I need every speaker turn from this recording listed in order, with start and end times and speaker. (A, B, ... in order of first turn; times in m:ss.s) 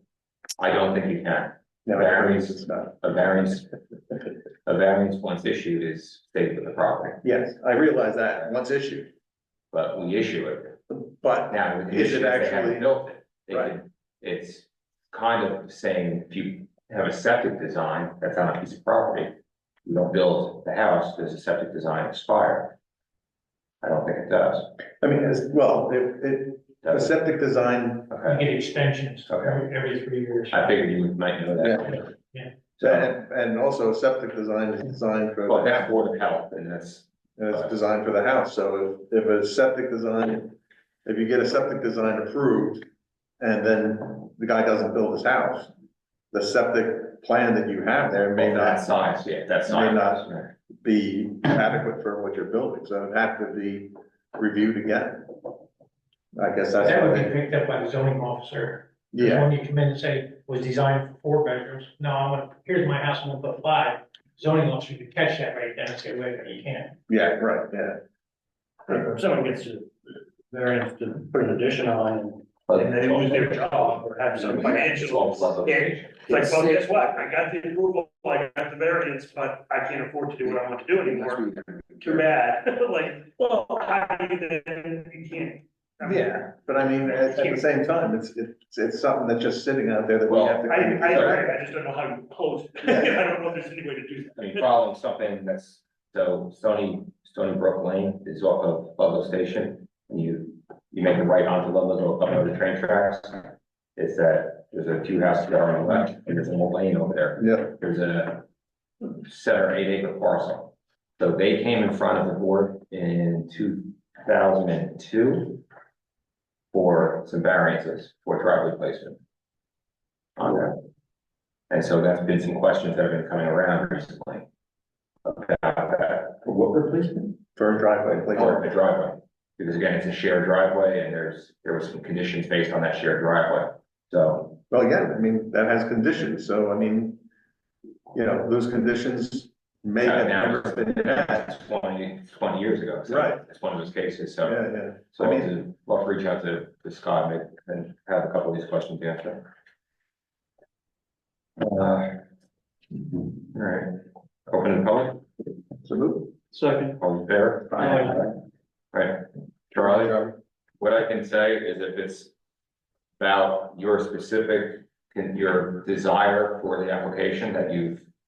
0:00.6-0:03.7 A
0:01.8-0:02.9 B
0:04.6-0:07.2 A
0:07.2-0:09.1 B
0:09.7-0:10.8 A
0:11.1-0:12.9 B
0:11.5-0:19.3 A
0:19.8-0:22.7 A
0:23.8-0:24.7 A
0:25.0-0:28.1 B
0:26.8-0:27.1 A
0:28.1-0:28.4 A
0:28.2-0:30.8 C
0:29.3-0:29.6 A
0:30.5-0:32.1 A
0:31.6-0:32.0 B
0:32.8-0:33.1 A
0:32.8-0:36.0 B
0:35.5-0:37.7 A
0:37.4-0:42.8 B
0:43.4-0:45.7 B
0:46.3-0:48.9 B
0:48.4-0:50.5 A
0:49.7-0:50.2 B
0:50.8-0:55.3 B
0:56.3-0:57.3 B
0:56.8-1:07.0 C
0:59.1-0:59.5 B
1:07.1-1:08.0 B
1:08.9-1:09.9 D
1:10.5-1:26.4 D
1:12.7-1:13.6 A
1:14.4-1:16.4 A
1:26.0-1:31.5 B
1:27.0-1:27.6 D
1:30.3-1:31.4 A
1:30.7-1:34.7 D
1:34.4-1:48.4 A
1:47.4-1:47.7 B
1:49.2-1:55.6 A
1:56.7-1:59.2 A
2:00.4-2:00.8 A
2:01.7-2:04.4 A
2:05.2-2:07.4 A
2:07.6-2:08.6 B
2:08.1-2:14.6 A
2:14.7-2:17.2 B
2:18.1-2:21.2 B
2:20.0-2:29.4 A
2:23.1-2:23.4 B
2:24.4-2:25.5 B
2:31.6-2:32.2 A
2:33.1-2:35.2 A
2:35.8-2:36.3 B
2:36.5-2:36.9 D
2:37.0-2:38.3 A
2:38.9-2:40.2 A
2:40.8-2:42.3 A
2:43.2-2:48.0 A